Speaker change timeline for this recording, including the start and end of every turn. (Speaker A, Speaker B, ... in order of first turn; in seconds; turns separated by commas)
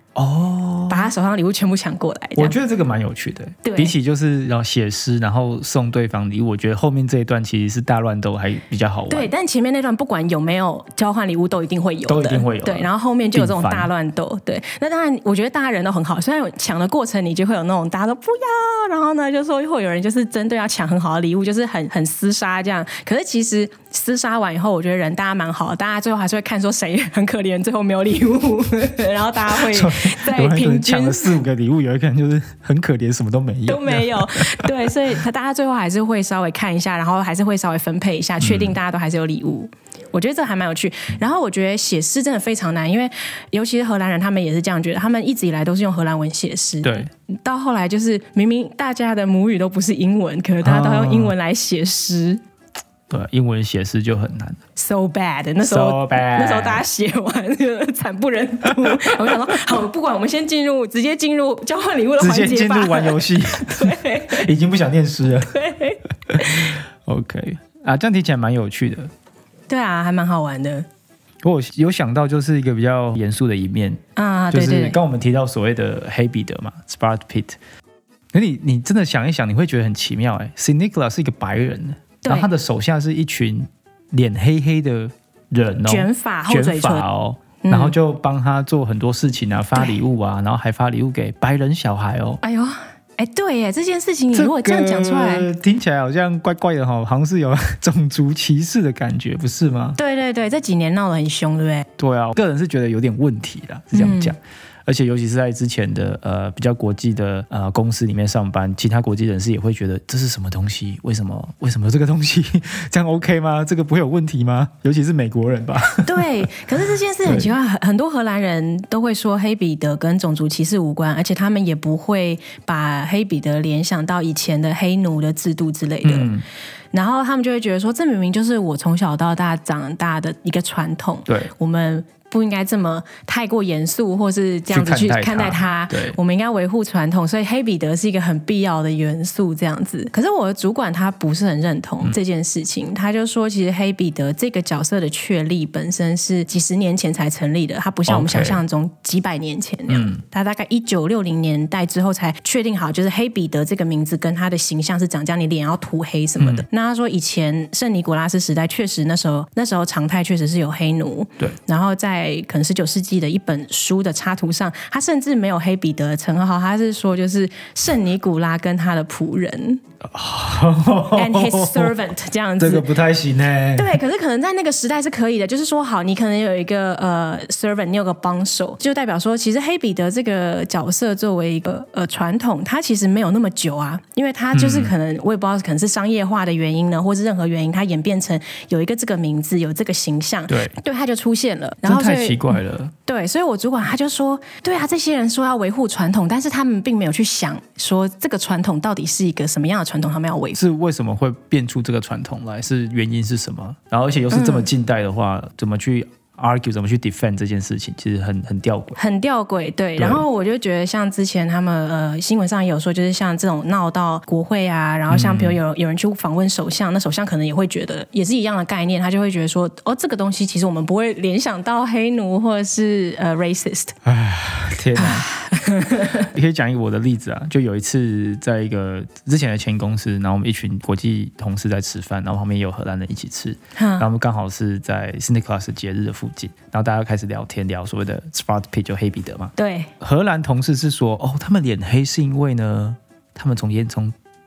Speaker A: 0.2-1.1, Speaker B: 0.9-2.5, Speaker A: 2.4-9.3, Speaker B: 3.6-3.9, Speaker B: 9.1-31.4, Speaker A: 12.1-13.9, Speaker A: 29.6-34.8, Speaker B: 33.7-52.4, Speaker A: 38.4-38.8, Speaker A: 46.8-47.1, Speaker A: 50.6-51.3, Speaker A: 53.1-54.6, Speaker B: 54.8-64.5, Speaker A: 55.6-56.8, Speaker A: 62.2-65.6, Speaker B: 65.5-66.8, Speaker A: 66.3-69.1, Speaker B: 69.7-70.9, Speaker A: 71.4-74.0, Speaker B: 74.2-75.0, Speaker A: 74.5-77.6, Speaker A: 78.3-92.4, Speaker B: 82.2-82.5, Speaker B: 85.9-87.0, Speaker B: 87.6-88.0, Speaker B: 92.4-95.5, Speaker A: 94.3-100.0, Speaker B: 100.0-101.9, Speaker A: 102.0-116.3, Speaker B: 103.9-104.3, Speaker B: 116.0-126.3, Speaker A: 117.2-117.5, Speaker A: 126.0-126.4, Speaker B: 126.9-169.8, Speaker A: 131.3-131.5, Speaker A: 134.7-136.2, Speaker A: 148.1-148.6, Speaker A: 149.9-150.2, Speaker A: 156.4-156.7, Speaker A: 170.0-171.9, Speaker B: 171.1-172.9, Speaker A: 172.6-174.0, Speaker B: 173.8-200.6, Speaker A: 184.5-184.9, Speaker A: 190.5-190.7, Speaker A: 191.8-192.9, Speaker A: 200.6-209.0, Speaker B: 204.3-204.7, Speaker B: 209.0-223.9, Speaker A: 210.0-210.2, Speaker A: 215.1-215.6, Speaker A: 224.1-225.3, Speaker B: 225.0-226.3, Speaker A: 226.1-244.1, Speaker B: 233.8-234.1, Speaker B: 239.6-239.9